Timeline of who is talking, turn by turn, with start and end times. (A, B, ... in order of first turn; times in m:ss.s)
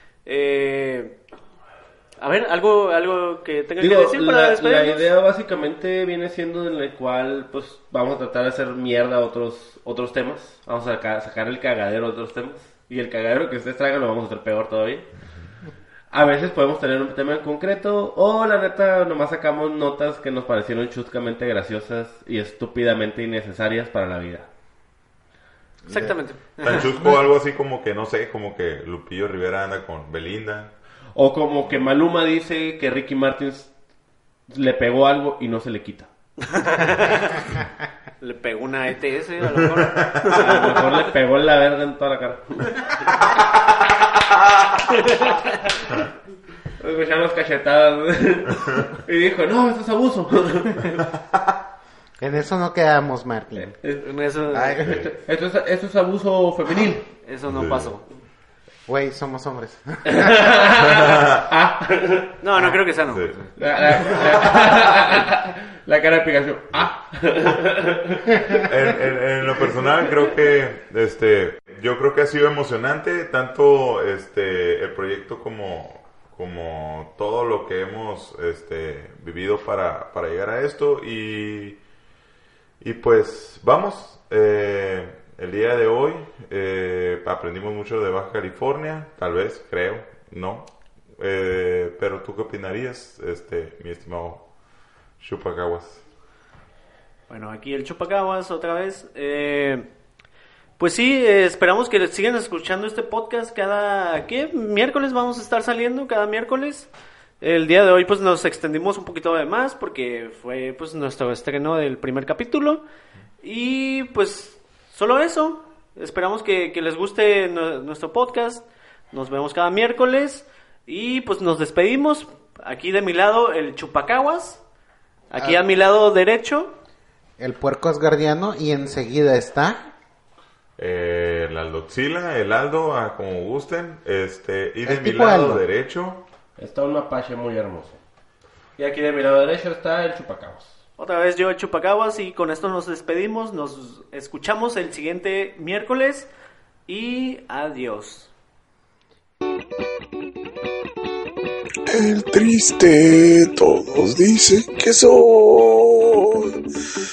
0:00.3-0:01.1 A
0:02.2-0:05.1 A
0:03.8-0:15.1 B
0:16.1-0:24.5 B
0:25.8-0:26.2 C
0:25.9-0:27.2 A
0:26.6-0:30.7 D
0:31.2-0:33.7 B
0:34.5-0:36.1 B
0:36.4-0:37.4 A
0:38.2-0:41.0 A
0:39.5-0:40.4 D
0:40.4-0:43.0 B
0:45.0-0:45.4 A
0:46.8-0:50.9 B
0:52.2-0:53.8 C
0:53.6-0:54.1 B
0:54.0-0:55.1 A
0:54.5-0:55.0 C
0:54.8-0:55.1 D
0:54.9-0:57.1 B
0:57.2-0:58.0 A
0:57.5-0:57.9 D
0:58.9-1:00.3 C
1:00.1-1:02.3 B
1:00.8-1:01.4 D
1:02.4-1:03.5 A
1:02.6-1:03.4 C
1:03.1-1:03.4 D
1:03.6-1:08.6 B
1:08.5-1:21.8 D
1:22.8-1:34.4 D
1:35.2-1:36.0 D
1:37.3-1:39.9 A
1:40.8-1:46.9 A
1:47.4-1:52.8 A
1:53.4-2:04.6 A
2:05.3-2:06.7 A
2:07.4-2:09.8 C
2:10.8-2:16.2 D
2:14.8-2:15.6 C
2:16.6-2:18.0 B
2:18.8-2:20.8 B
2:21.0-2:26.3 A
2:26.9-2:28.3 A
2:31.9-2:36.6 E